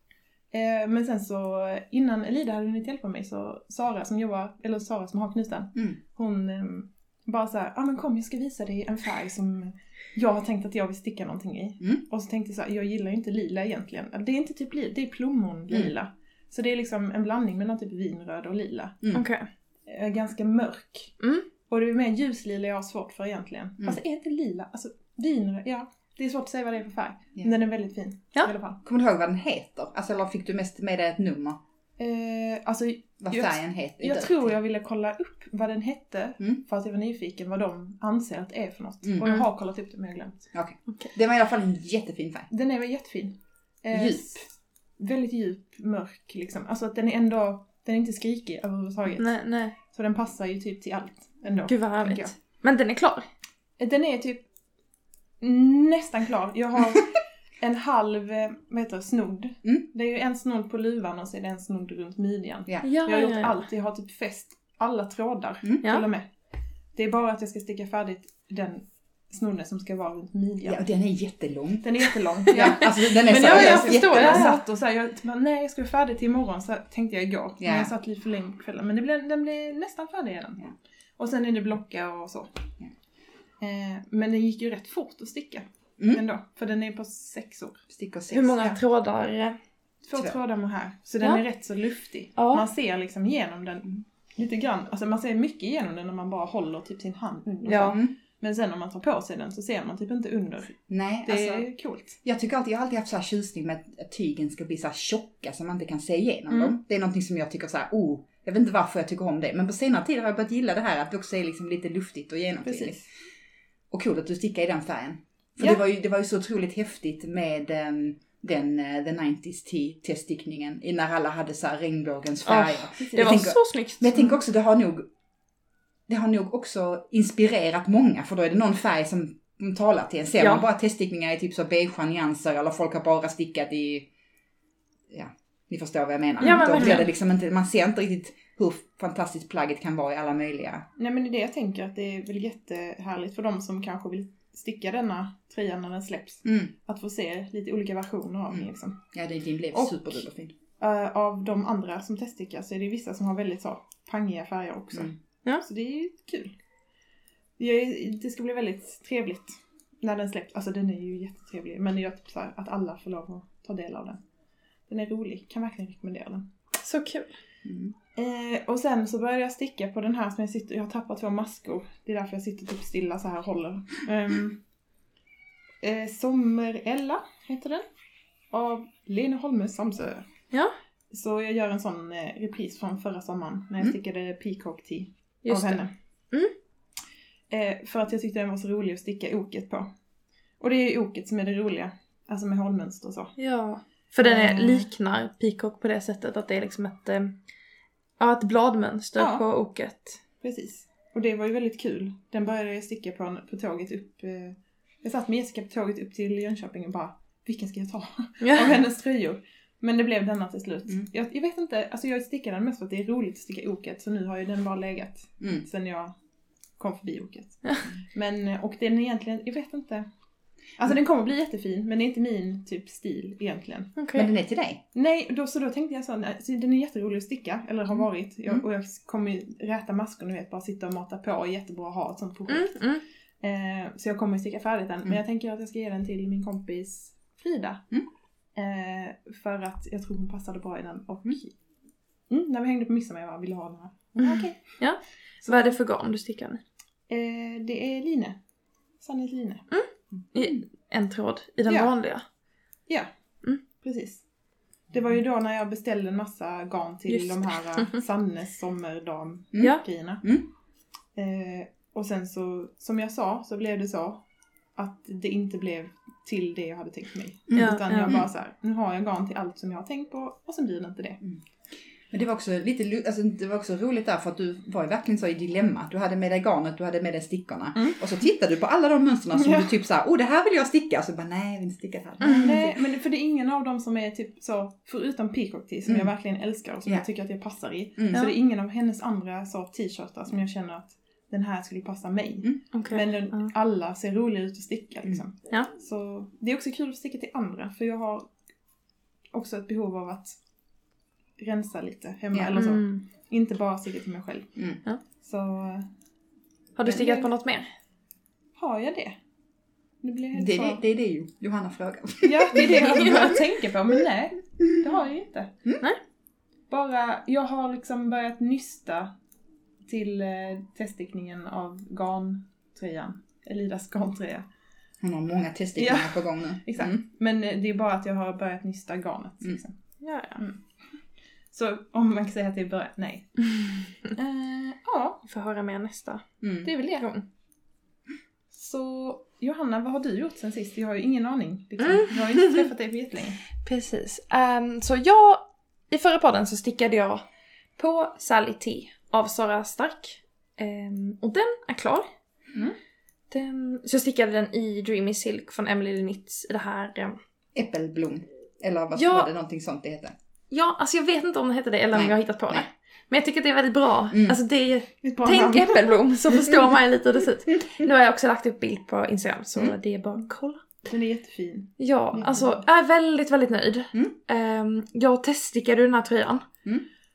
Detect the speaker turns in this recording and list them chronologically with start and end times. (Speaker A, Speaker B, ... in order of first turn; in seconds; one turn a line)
Speaker A: 0.5-19.0
Speaker B: 19.1-19.5
Speaker A: 19.9-21.1
Speaker B: 21.2-21.4
Speaker A: 21.7-28.8
Speaker C: 28.8-31.6
Speaker A: 32.0-40.4
Speaker C: 33.2-34.5
Speaker C: 39.0-39.3
Speaker C: 40.5-42.5
Speaker A: 42.5-44.5
Speaker C: 43.9-44.2
Speaker A: 45.0-52.3
Speaker B: 49.2-49.8
Speaker B: 51.6-53.2
Speaker A: 53.8-54.4
Speaker A: 55.4-66.3
Speaker B: 62.8-63.6
Speaker A: 66.9-70.8
Speaker C: 70.6-71.9
Speaker A: 71.8-82.5
Speaker B: 72.5-74.6
Speaker C: 72.5-74.5
Speaker C: 77.6-77.9
Speaker A: 83.6-87.8
Speaker C: 86.0-86.2
Speaker C: 87.9-88.8
Speaker B: 88.3-89.6
Speaker A: 90.0-102.2
Speaker B: 92.4-92.7
Speaker B: 97.7-98.0
Speaker C: 97.8-98.1
Speaker C: 100.9-101.7
Speaker C: 102.2-113.0
Speaker A: 106.5-106.8
Speaker A: 112.6-113.0
Speaker C: 113.9-125.0
Speaker B: 122.5-124.3
Speaker C: 126.1-134.1
Speaker B: 130.4-130.7
Speaker C: 135.1-140.8
Speaker B: 136.4-137.1
Speaker A: 136.4-137.0
Speaker A: 141.0-149.0
Speaker C: 146.4-146.7
Speaker C: 148.5-150.5
Speaker A: 149.7-150.2
Speaker A: 150.8-156.5
Speaker A: 157.6-164.2
Speaker A: 164.9-166.5
Speaker B: 166.8-167.3
Speaker C: 167.6-167.9
Speaker A: 168.1-174.6
Speaker A: 175.8-177.8
Speaker A: 178.5-180.2
Speaker A: 181.1-185.9
Speaker B: 185.4-185.8
Speaker A: 187.5-189.9
Speaker A: 190.6-193.3
Speaker B: 193.4-197.3
Speaker A: 194.2-194.9
Speaker B: 198.2-200.2
Speaker A: 199.2-199.4
Speaker A: 200.4-216.1
Speaker B: 208.4-208.7
Speaker A: 216.8-220.1
Speaker A: 220.8-223.9
Speaker B: 224.0-224.3
Speaker C: 224.1-224.8
Speaker A: 224.9-232.8
Speaker C: 227.9-228.6
Speaker B: 232.5-233.0
Speaker A: 233.4-237.8
Speaker A: 238.6-241.5
Speaker A: 242.3-244.7
Speaker B: 244.3-246.6
Speaker A: 245.5-245.8
Speaker A: 247.1-248.4
Speaker A: 249.0-249.6
Speaker B: 249.7-252.2
Speaker C: 250.2-250.6
Speaker A: 253.8-254.2
Speaker A: 254.9-260.3
Speaker B: 257.1-258.0
Speaker C: 259.5-260.5
Speaker A: 261.1-264.2
Speaker A: 264.8-271.2
Speaker C: 267.5-268.3
Speaker B: 267.5-268.2
Speaker C: 272.1-282.8
Speaker A: 277.8-278.0
Speaker A: 279.3-279.7
Speaker B: 282.2-282.5
Speaker A: 282.3-298.3
Speaker C: 285.9-286.1
Speaker C: 288.0-288.3
Speaker B: 292.7-293.5
Speaker A: 299.3-300.4
Speaker A: 301.4-304.6
Speaker B: 302.5-303.0
Speaker A: 305.2-305.9
Speaker B: 306.8-307.7
Speaker A: 306.8-307.3
Speaker A: 308.6-309.1
Speaker A: 310.0-310.8
Speaker C: 310.4-313.4
Speaker A: 312.2-315.5
Speaker B: 312.8-313.3
Speaker A: 316.7-319.1
Speaker A: 319.9-324.4
Speaker C: 325.0-327.0
Speaker A: 325.8-329.8
Speaker B: 330.0-330.4
Speaker A: 331.5-333.5
Speaker A: 334.0-335.2
Speaker B: 335.2-337.2
Speaker C: 336.4-336.7
Speaker A: 338.5-343.4
Speaker B: 341.8-342.7
Speaker B: 343.6-347.2
Speaker B: 347.8-352.1
Speaker B: 353.3-357.2
Speaker C: 357.5-360.1
Speaker B: 358.9-359.3
Speaker B: 360.5-370.6
Speaker C: 361.9-362.6
Speaker C: 364.1-364.4
Speaker A: 365.0-365.9
Speaker A: 370.8-372.5
Speaker B: 371.8-376.5